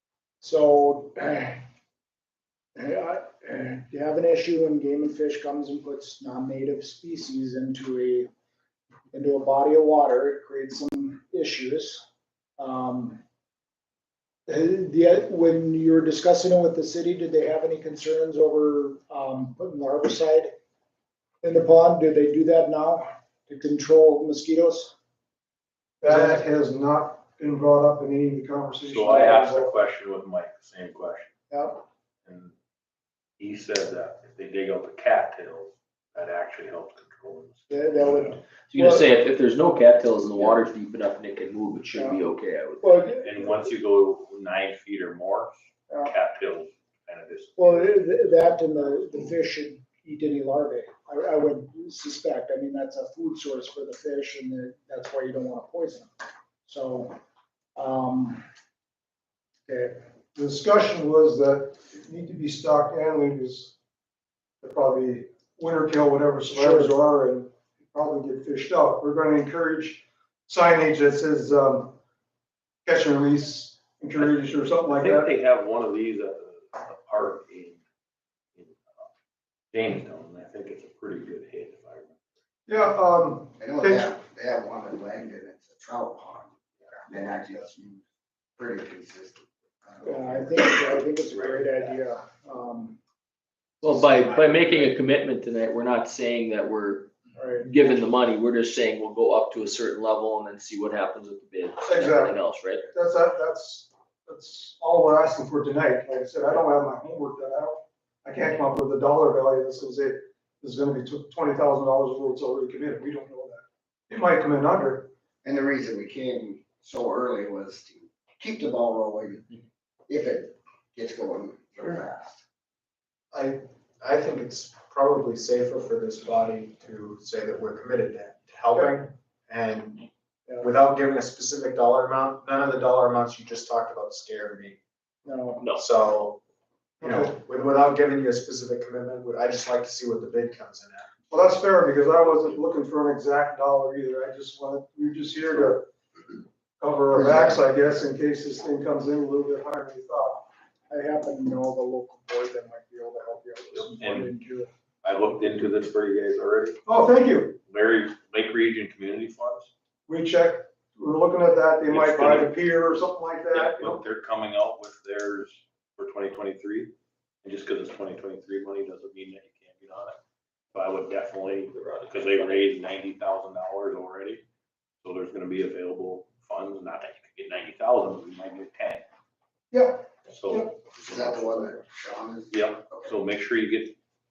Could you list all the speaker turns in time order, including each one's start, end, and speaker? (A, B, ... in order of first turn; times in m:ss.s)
0:00.4-0:01.6 A
0:02.7-0:08.3 A
0:09.1-0:12.0 A
0:12.6-0:13.2 A
0:14.5-0:20.5 A
0:21.4-0:24.9 A
0:26.0-0:29.7 B
0:26.1-0:26.4 A
0:28.8-0:31.3 C
0:31.5-0:31.8 A
0:32.2-0:32.5 C
0:33.4-0:37.6 C
0:37.7-0:39.1 A
0:38.7-0:43.2 D
0:41.9-0:42.2 A
0:42.8-0:43.7 A
0:43.2-0:48.0 C
0:47.6-0:56.1 A
0:56.6-0:57.2 A
0:57.8-0:58.4 A
0:59.7-1:00.0 A
1:00.3-1:03.7 B
1:04.6-1:12.0 B
1:06.5-1:06.9 A
1:12.8-1:15.3 B
1:14.2-1:17.8 C
1:18.6-1:19.0 C
1:19.7-1:22.2 C
1:22.7-1:24.1 B
1:23.6-1:28.0 E
1:28.6-1:30.7 E
1:30.0-1:33.0 A
1:31.3-1:31.7 C
1:33.8-1:42.9 D
1:37.4-1:37.7 A
1:41.8-1:42.4 B
1:42.9-1:55.1 B
1:55.4-2:02.4 E
2:03.3-2:10.1 F
2:10.6-2:14.8 F
2:15.2-2:15.7 A
2:15.8-2:16.4 F
2:17.0-2:21.1 F
2:17.0-2:17.3 B
2:21.3-2:25.9 B
2:26.8-2:30.5 B
2:30.9-2:34.7 A
2:33.7-2:34.3 C
2:35.0-2:36.8 C
2:36.8-2:37.6 B
2:37.7-2:39.7 C
2:40.1-2:44.0 B
2:41.9-2:42.5 C
2:43.5-2:46.9 C
2:47.4-2:50.2 C
2:50.7-2:54.4 C
2:51.7-2:52.6 D
2:55.0-2:59.0 C
2:59.7-3:00.8 B
3:00.3-3:01.4 C
3:00.9-3:03.2 E
3:02.5-3:04.0 C